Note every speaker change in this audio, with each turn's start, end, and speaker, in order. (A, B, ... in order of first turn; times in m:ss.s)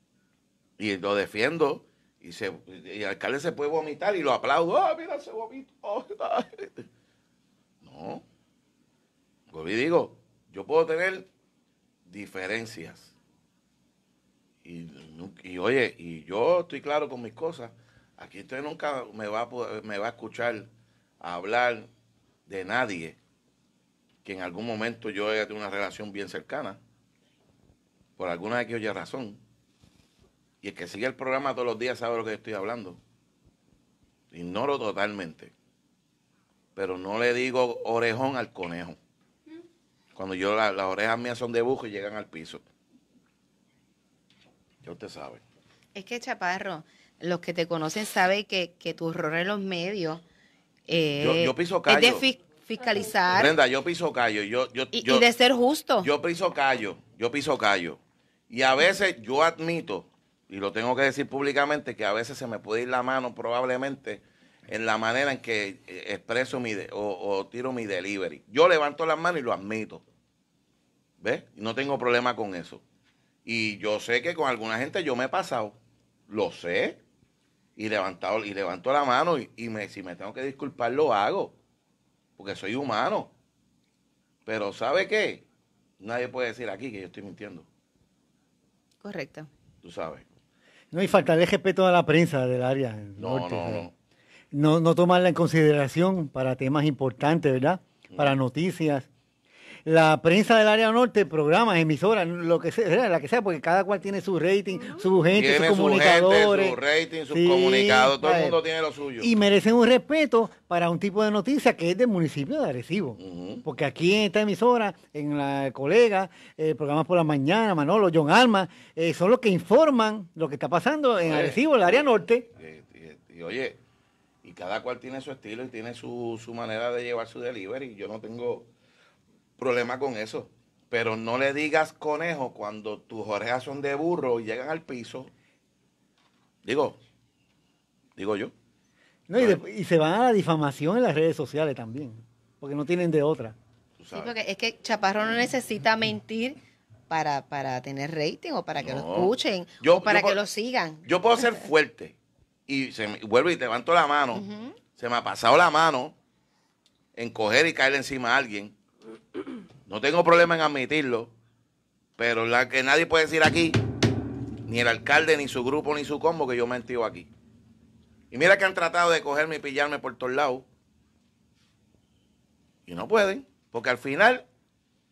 0:00.8-0:06.9 A
0:07.8-0:08.2 A
0:09.5-0:11.3 A
0:12.1-0:13.1 A
0:14.6-0:20.7 A
0:21.2-0:21.9 A
0:22.5-0:23.2 A
0:24.2-0:26.8 A
0:28.2-0:29.4 A
0:30.6-0:33.0 A
0:34.3-0:35.5 A
0:36.8-0:39.0 A
0:40.2-0:42.6 A
0:44.8-0:45.4 A
0:46.0-0:50.2 B
0:50.9-0:53.5 B
0:51.2-0:52.2 A
0:53.4-0:55.3 A
0:54.9-0:56.1 B
0:56.0-1:10.0 A
1:11.2-1:12.8 A
1:13.4-1:17.0 A
1:17.8-1:21.6 A
1:22.4-1:23.3 A
1:24.4-1:25.4 A
1:26.0-1:27.7 A
1:29.0-1:29.5 B
1:29.8-1:30.2 A
1:30.9-1:33.9 C
1:33.2-1:33.9 A
1:34.5-1:39.1 C
1:39.9-1:46.8 C
1:45.3-1:49.3 A
1:47.3-1:48.6 C
1:49.2-2:02.5 C
1:53.2-1:53.6 A
2:01.2-2:02.0 A
2:02.6-2:03.8 A
2:04.4-2:08.7 A
2:09.6-2:15.3 A
2:16.6-2:17.0 A
2:18.2-2:18.5 A
2:19.3-2:23.6 C
2:24.0-2:24.3 A
2:24.1-2:26.6 B
2:27.1-2:31.1 B
2:28.8-2:30.4 A
2:31.0-2:32.2 A
2:32.7-2:34.4 A
2:34.3-2:34.8 B
2:35.0-2:36.2 A
2:37.2-2:38.7 A
2:39.9-2:41.3 A
2:42.2-2:43.8 A
2:44.7-2:47.3 A
2:48.3-2:50.6 A
2:52.9-2:54.5 A